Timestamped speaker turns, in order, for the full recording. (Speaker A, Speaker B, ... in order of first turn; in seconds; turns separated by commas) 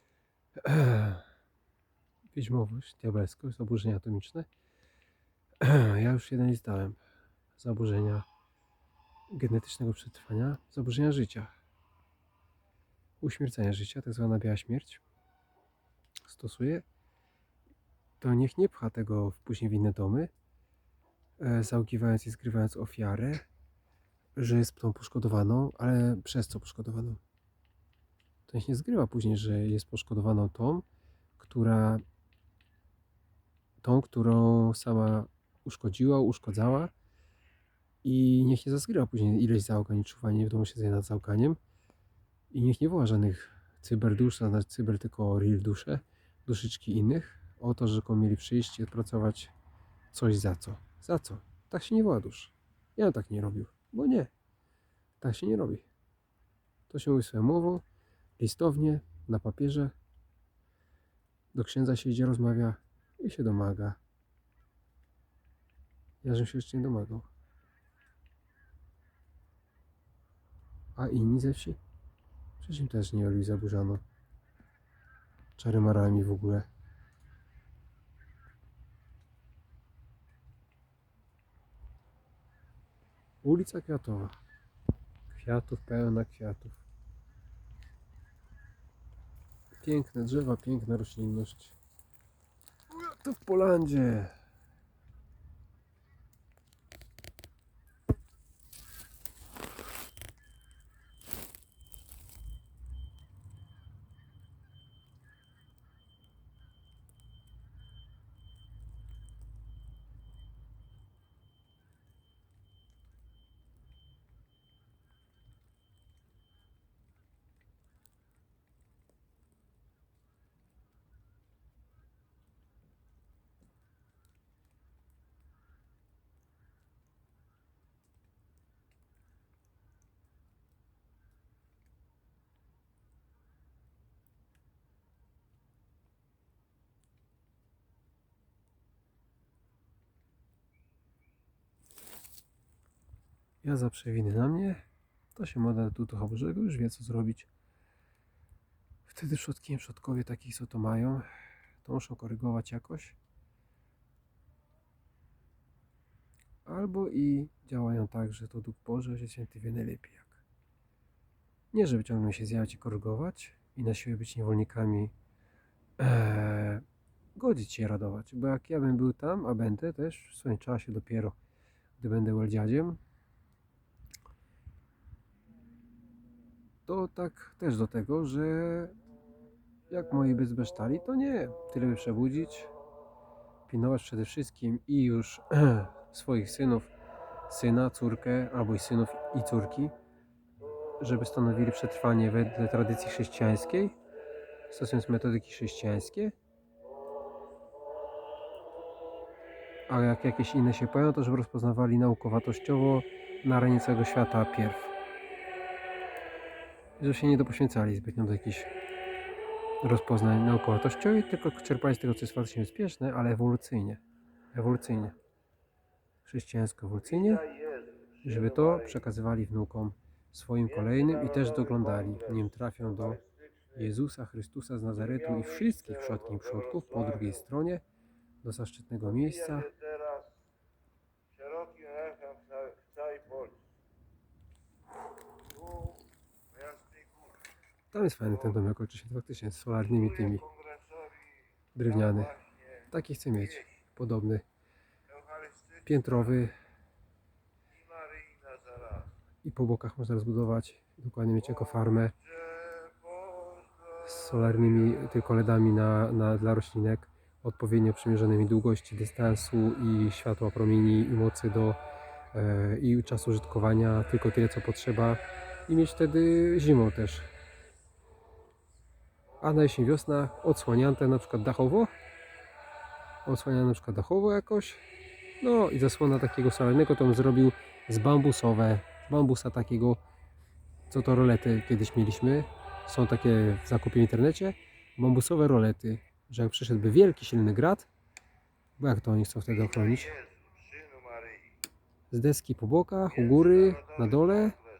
Speaker A: 0.6-1.2, Speaker A: 2.3-4.5, Speaker A: 5.6-7.0, Speaker A: 7.6-8.2, Speaker A: 9.3-11.5, Speaker A: 13.2-15.0, Speaker A: 16.2-16.8, Speaker A: 18.2-20.3, Speaker A: 21.4-23.4, Speaker A: 24.4-27.2, Speaker A: 28.5-30.8, Speaker A: 31.4-32.0, Speaker A: 33.8-36.9, Speaker A: 38.0-41.6, Speaker A: 42.5-49.5, Speaker A: 50.1-54.3, Speaker A: 55.2-55.9, Speaker A: 56.9-57.8, Speaker A: 58.4-59.9, Speaker A: 61.5-64.0, Speaker A: 66.2-67.3, Speaker A: 71.0-71.8, Speaker A: 72.6-74.0, Speaker A: 75.6-76.7, Speaker A: 83.4-84.4, Speaker A: 85.3-86.8, Speaker A: 89.8-91.8, Speaker A: 92.9-94.3, Speaker A: 143.6-144.8, Speaker A: 145.3-147.5, Speaker A: 149.1-151.2, Speaker A: 151.8-153.2, Speaker A: 156.6-160.4, Speaker A: 161.7-165.1, Speaker A: 166.0-166.8, Speaker A: 167.3-171.3, Speaker A: 172.0-173.0, Speaker A: 176.8-178.9, Speaker A: 179.9-182.7, Speaker A: 183.7-186.9, Speaker A: 187.5-189.9, Speaker A: 191.0-193.9, Speaker A: 194.7-196.3, Speaker A: 199.9-204.9, Speaker A: 207.0-208.7, Speaker A: 209.8-214.0, Speaker A: 214.5-215.1, Speaker A: 216.2-217.5, Speaker B: 217.4-218.2, Speaker A: 218.2-223.2, Speaker A: 223.7-227.8, Speaker A: 228.4-229.7, Speaker B: 229.7-230.3, Speaker B: 231.4-233.6, Speaker B: 235.6-236.0, Speaker B: 236.5-237.3, Speaker A: 237.9-240.5, Speaker B: 240.5-241.2, Speaker A: 241.7-244.4, Speaker B: 245.1-245.8, Speaker A: 245.8-246.5, Speaker B: 247.8-249.1, Speaker A: 249.4-252.2, Speaker B: 252.4-253.7, Speaker A: 254.0-261.8, Speaker A: 262.3-267.3, Speaker A: 269.4-271.9, Speaker A: 273.2-274.8, Speaker A: 275.4-280.0, Speaker A: 280.9-287.9, Speaker A: 288.8-290.1, Speaker B: 290.1-291.4, Speaker A: 292.1-294.6